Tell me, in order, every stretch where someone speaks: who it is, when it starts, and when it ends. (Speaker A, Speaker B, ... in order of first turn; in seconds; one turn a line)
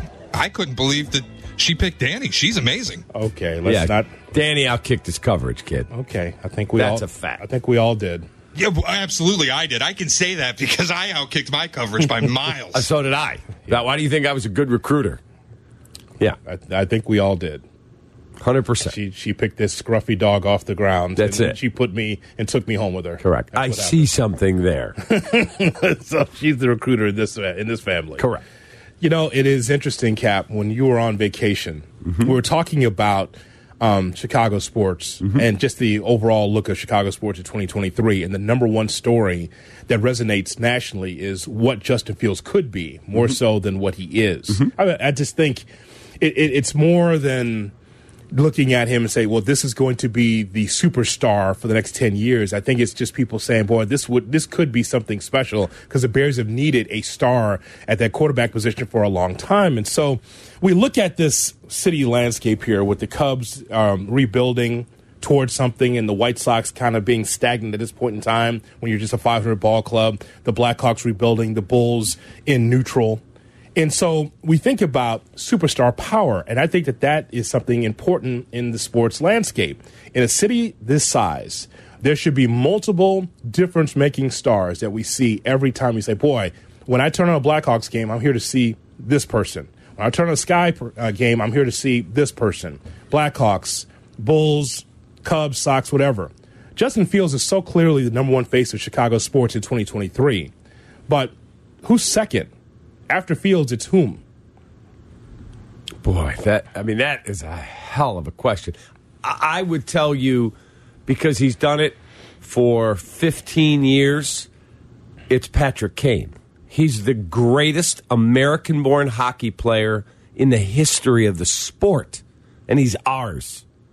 Speaker A: 0.3-3.0
Speaker B: 3.1-4.1
Speaker C: 3.6-5.9
Speaker B: 5.9-8.3
Speaker C: 6.8-7.4
Speaker A: 8.6-12.8
Speaker C: 12.7-15.2
Speaker B: 16.4-17.6
Speaker C: 18.4-18.9
Speaker B: 18.9-24.1
Speaker C: 21.2-21.6
Speaker C: 23.2-24.9
Speaker B: 25.0-28.3
Speaker C: 28.2-28.4
Speaker B: 29.0-45.7
Speaker B: 46.2-47.7
Speaker B: 48.3-73.2
Speaker B: 73.8-100.5
Speaker B: 101.1-102.5
Speaker B: 103.1-104.2
Speaker C: 106.0-110.5
Speaker C: 111.1-114.5
Speaker C: 115.3-123.6